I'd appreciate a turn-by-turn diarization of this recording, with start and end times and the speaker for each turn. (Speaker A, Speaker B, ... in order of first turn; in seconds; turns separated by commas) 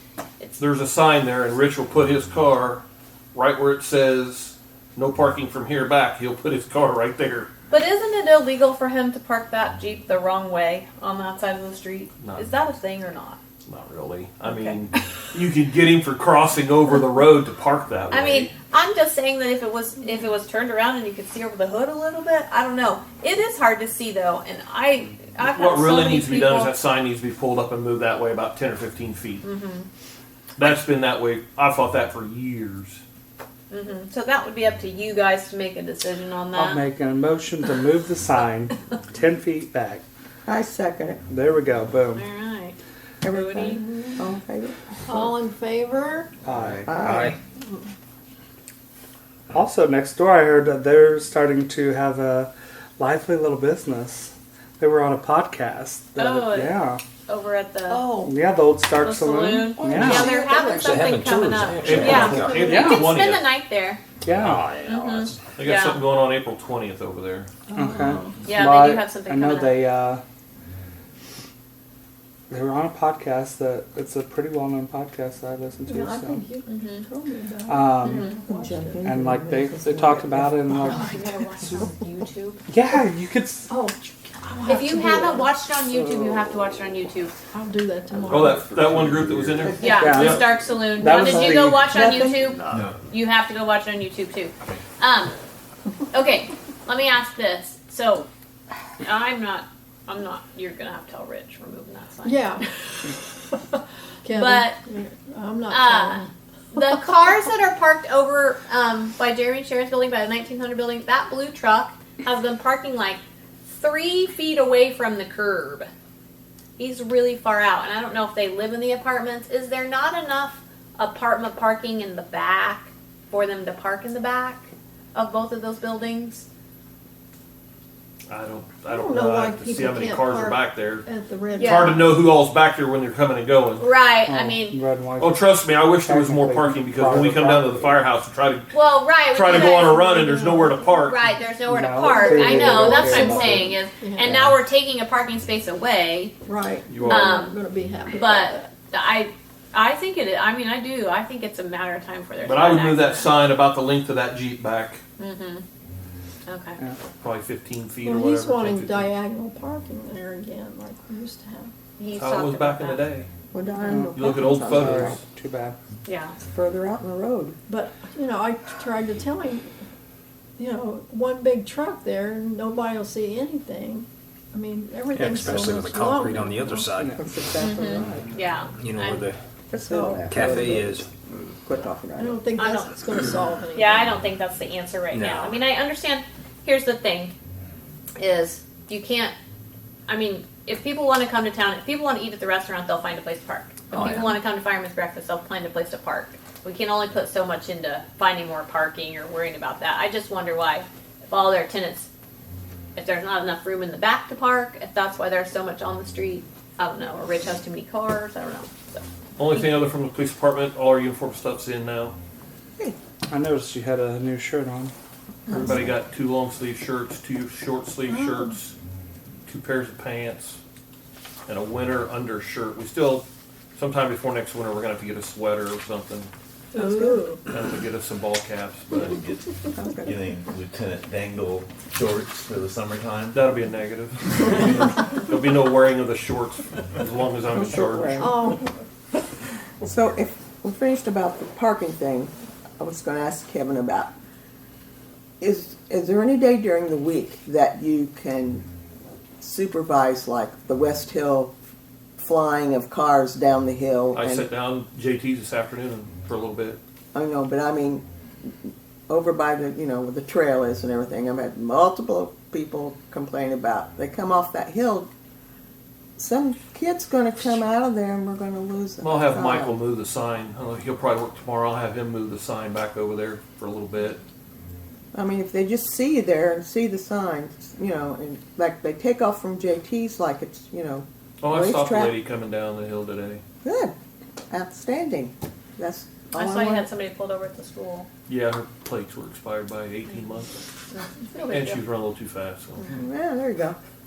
Speaker A: 0.6-2.8, Speaker A: 3.3-7.5, Speaker B: 7.7-13.4, Speaker A: 12.2-12.5, Speaker A: 13.7-18.5, Speaker B: 14.4-14.8, Speaker B: 18.1-26.8, Speaker A: 25.4-29.4, Speaker B: 29.4-29.9, Speaker A: 30.6-33.0, Speaker B: 33.7-36.8, Speaker C: 36.5-40.0, Speaker D: 40.5-41.2, Speaker C: 41.3-42.3, Speaker B: 42.1-42.8, Speaker D: 43.2-45.2, Speaker B: 43.3-43.8, Speaker E: 45.1-46.3, Speaker C: 46.4-47.3, Speaker D: 46.8-47.3, Speaker C: 49.5-57.0, Speaker B: 56.2-58.1, Speaker D: 57.9-58.3, Speaker C: 58.2-60.3, Speaker B: 59.0-64.0, Speaker D: 59.8-60.8, Speaker F: 60.6-62.5, Speaker A: 61.8-63.5, Speaker D: 62.2-62.5, Speaker C: 62.5-63.1, Speaker C: 64.2-64.9, Speaker B: 64.8-66.0, Speaker F: 64.9-65.4, Speaker A: 65.6-67.5, Speaker E: 67.7-68.4, Speaker C: 67.8-70.2, Speaker B: 68.5-69.8, Speaker C: 72.5-76.4, Speaker E: 75.9-79.2, Speaker B: 76.7-77.0, Speaker C: 77.7-78.3, Speaker B: 78.0-78.3, Speaker D: 78.4-80.8, Speaker C: 79.0-81.2, Speaker B: 80.9-82.6, Speaker C: 82.7-83.7, Speaker E: 83.7-85.5, Speaker B: 84.7-87.3, Speaker E: 87.5-89.0, Speaker A: 88.3-90.6, Speaker G: 88.4-89.9, Speaker D: 89.6-89.9, Speaker B: 89.8-95.3, Speaker C: 90.0-91.9, Speaker D: 91.9-92.9, Speaker G: 92.7-93.0, Speaker B: 96.1-98.3, Speaker B: 99.0-102.6, Speaker E: 102.2-102.6, Speaker E: 104.2-106.3, Speaker B: 104.3-104.8, Speaker B: 105.7-115.9, Speaker B: 116.8-126.5, Speaker A: 128.3-131.1, Speaker E: 128.9-132.2, Speaker B: 131.6-132.0, Speaker A: 131.6-133.9, Speaker B: 133.8-134.8, Speaker C: 134.2-135.4, Speaker A: 135.2-141.3, Speaker C: 136.0-138.0, Speaker B: 138.7-140.0, Speaker E: 139.7-140.9, Speaker B: 141.0-146.3, Speaker C: 141.7-143.8, Speaker E: 142.0-144.4, Speaker E: 146.4-148.6, Speaker A: 146.9-147.4, Speaker B: 147.1-147.6, Speaker B: 148.1-153.3, Speaker A: 152.4-155.0, Speaker B: 155.2-155.6, Speaker B: 156.5-156.8, Speaker A: 157.2-159.1, Speaker E: 158.0-161.7, Speaker B: 162.0-163.0, Speaker A: 162.1-163.3, Speaker D: 163.5-165.2, Speaker C: 163.8-165.8, Speaker A: 164.1-165.2, Speaker B: 166.1-166.3, Speaker D: 166.5-167.6, Speaker E: 167.7-169.7, Speaker E: 170.6-176.9, Speaker F: 175.1-177.2, Speaker D: 177.1-178.3, Speaker B: 177.6-179.2, Speaker C: 177.9-178.1, Speaker F: 178.7-179.4, Speaker D: 179.7-182.4, Speaker C: 179.9-180.4, Speaker F: 180.3-181.1, Speaker E: 182.2-184.2, Speaker B: 182.6-182.9, Speaker B: 183.7-187.3, Speaker F: 185.1-185.6, Speaker B: 188.2-189.3, Speaker B: 190.1-202.1, Speaker B: 202.9-209.7, Speaker A: 209.4-212.2, Speaker C: 213.3-214.9, Speaker C: 215.5-215.9, Speaker A: 215.5-218.7, Speaker A: 219.4-220.6, Speaker A: 221.5-226.3, Speaker E: 226.7-227.4, Speaker D: 226.8-227.2, Speaker A: 227.5-229.2, Speaker G: 228.9-233.4, Speaker D: 229.7-230.1, Speaker A: 233.3-238.3, Speaker D: 237.5-238.5, Speaker E: 238.2-238.6, Speaker D: 239.8-244.1, Speaker D: 245.4-248.7, Speaker D: 249.4-251.5, Speaker D: 252.2-254.5, Speaker A: 254.1-256.8, Speaker D: 257.1-265.1, Speaker D: 266.2-269.8, Speaker A: 269.0-274.2, Speaker D: 275.1-282.2, Speaker A: 281.4-283.4, Speaker D: 283.6-283.9, Speaker D: 284.5-286.9, Speaker B: 286.3-288.1, Speaker A: 288.3-290.6, Speaker B: 290.9-291.8, Speaker A: 291.5-292.9, Speaker D: 292.9-293.8